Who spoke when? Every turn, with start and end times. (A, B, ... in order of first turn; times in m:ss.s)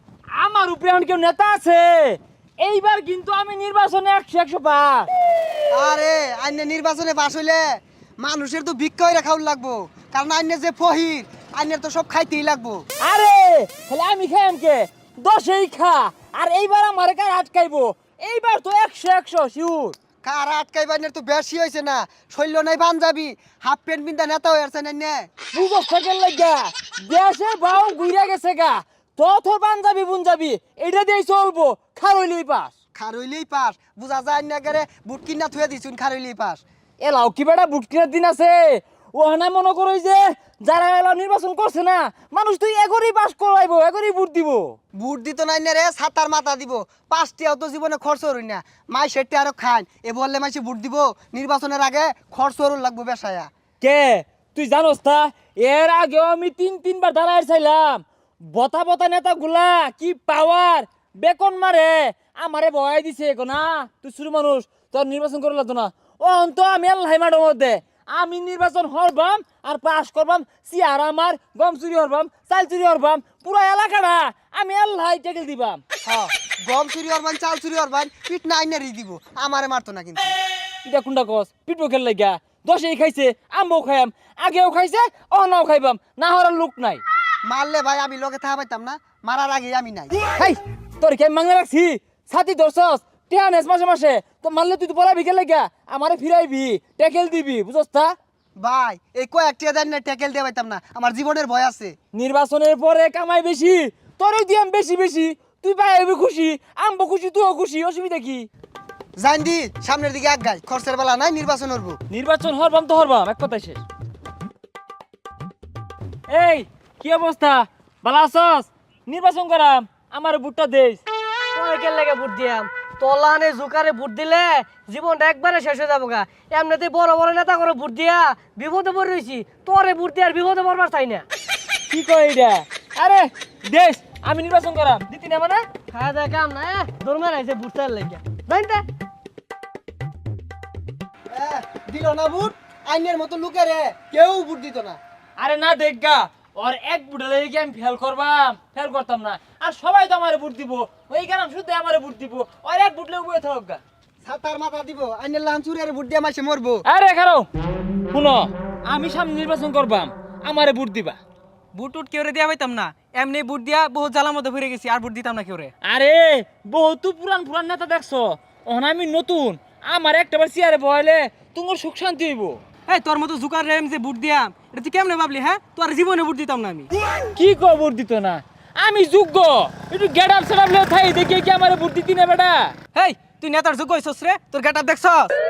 0:00.4-0:05.1 A
0:05.7-0:12.8 B
0:13.0-0:20.0 A
0:20.2-0:25.3 B
0:25.5-0:32.7 A
0:32.9-0:36.6 B
0:37.0-0:44.8 A
0:44.9-0:53.5 B
0:53.8-1:15.8 A
1:16.0-1:20.3 B
1:20.8-1:27.0 A
1:27.4-1:30.2 B
1:30.3-1:38.1 A
1:38.6-1:42.0 B
1:42.1-1:48.5 A
1:49.2-1:52.0 B
1:52.1-1:53.8 A
1:56.3-2:01.0 A
2:01.5-2:11.2 C
2:11.9-2:15.6 A
2:15.9-2:18.8 C
2:21.3-2:25.0 B
2:25.4-2:33.8 A
2:34.2-2:36.8 B
2:36.9-2:37.5 A
2:38.1-2:41.2 A
2:41.7-2:45.7 D
2:45.8-2:52.6 A
2:52.9-2:56.9 D
2:57.3-3:02.7 A
3:02.9-3:05.3 D